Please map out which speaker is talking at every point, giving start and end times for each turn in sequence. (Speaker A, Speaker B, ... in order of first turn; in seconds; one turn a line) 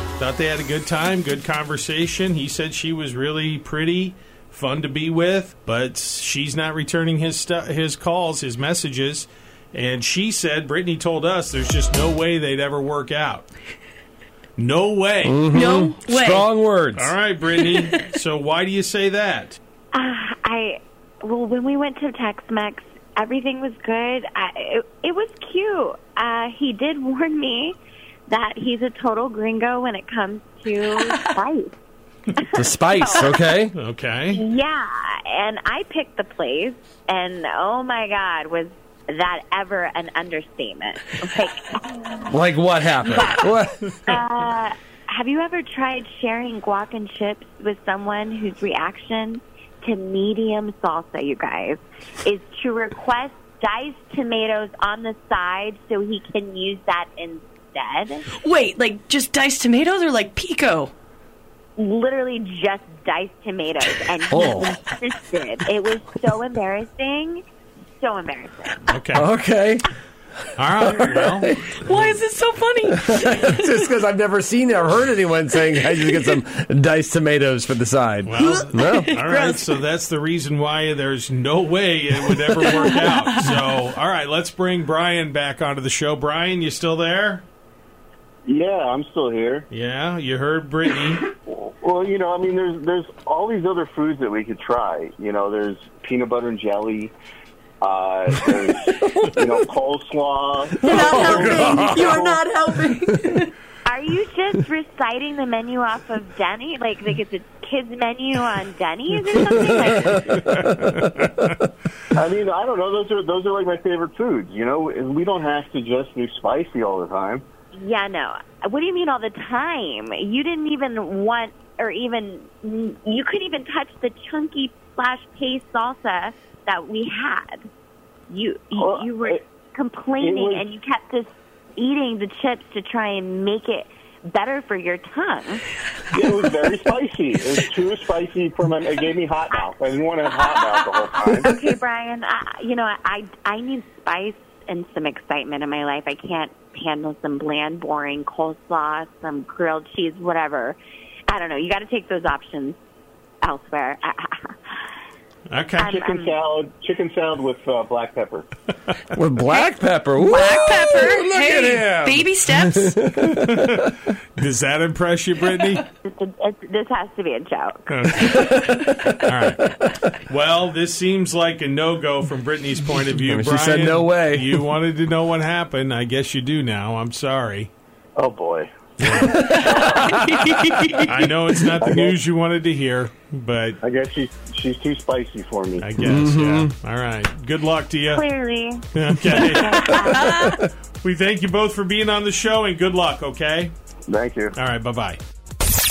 Speaker A: 0.2-13.5
Speaker A: 14.6-15.5
Speaker B: 15.2-17.1
Speaker C: 15.5-16.5
Speaker A: 16.9-19.6
Speaker C: 17.7-18.1
Speaker D: 19.9-27.8
Speaker D: 28.3-31.7
Speaker D: 32.3-33.4
Speaker B: 32.5-33.7
Speaker A: 33.7-34.4
Speaker D: 34.3-42.2
Speaker B: 42.3-43.8
Speaker D: 43.1-43.4
Speaker D: 44.1-58.2
Speaker C: 58.4-60.9
Speaker D: 61.8-67.4
Speaker B: 64.3-64.8
Speaker D: 68.0-68.8
Speaker A: 68.9-69.3
Speaker B: 69.1-69.9
Speaker A: 70.6-72.0
Speaker B: 70.8-71.5
Speaker C: 71.7-73.9
Speaker B: 73.1-79.1
Speaker A: 78.2-87.5
Speaker C: 78.3-79.7
Speaker C: 82.4-83.6
Speaker E: 88.5-89.7
Speaker A: 89.7-91.2
Speaker E: 91.3-97.1
Speaker E: 97.8-102.4
Speaker B: 100.8-102.1
Speaker C: 100.8-103.5
Speaker D: 103.8-110.5
Speaker A: 110.8-111.2
Speaker E: 112.1-117.4
Speaker D: 117.7-127.7
Speaker D: 128.3-135.6
Speaker E: 128.8-129.4
Speaker E: 130.2-130.7
Speaker E: 136.1-141.5
Speaker D: 141.3-152.8
Speaker D: 153.4-154.8
Speaker A: 155.5-155.9
Speaker D: 155.8-156.3
Speaker E: 155.9-158.5
Speaker B: 159.1-163.9
Speaker C: 160.2-163.0
Speaker D: 160.3-161.1
Speaker A: 163.3-165.8
Speaker D: 166.0-168.3
Speaker A: 167.9-168.7
Speaker A: 169.2-177.7
Speaker B: 173.2-174.5
Speaker E: 178.2-180.6
Speaker A: 179.0-179.5
Speaker C: 179.3-181.1
Speaker B: 180.1-180.4
Speaker A: 180.9-183.8
Speaker E: 181.8-182.2
Speaker E: 183.8-185.9
Speaker A: 185.8-188.2
Speaker B: 186.0-186.7
Speaker D: 188.1-190.6
Speaker A: 188.9-193.7
Speaker C: 190.1-190.5
Speaker E: 194.1-194.5
Speaker A: 194.5-195.2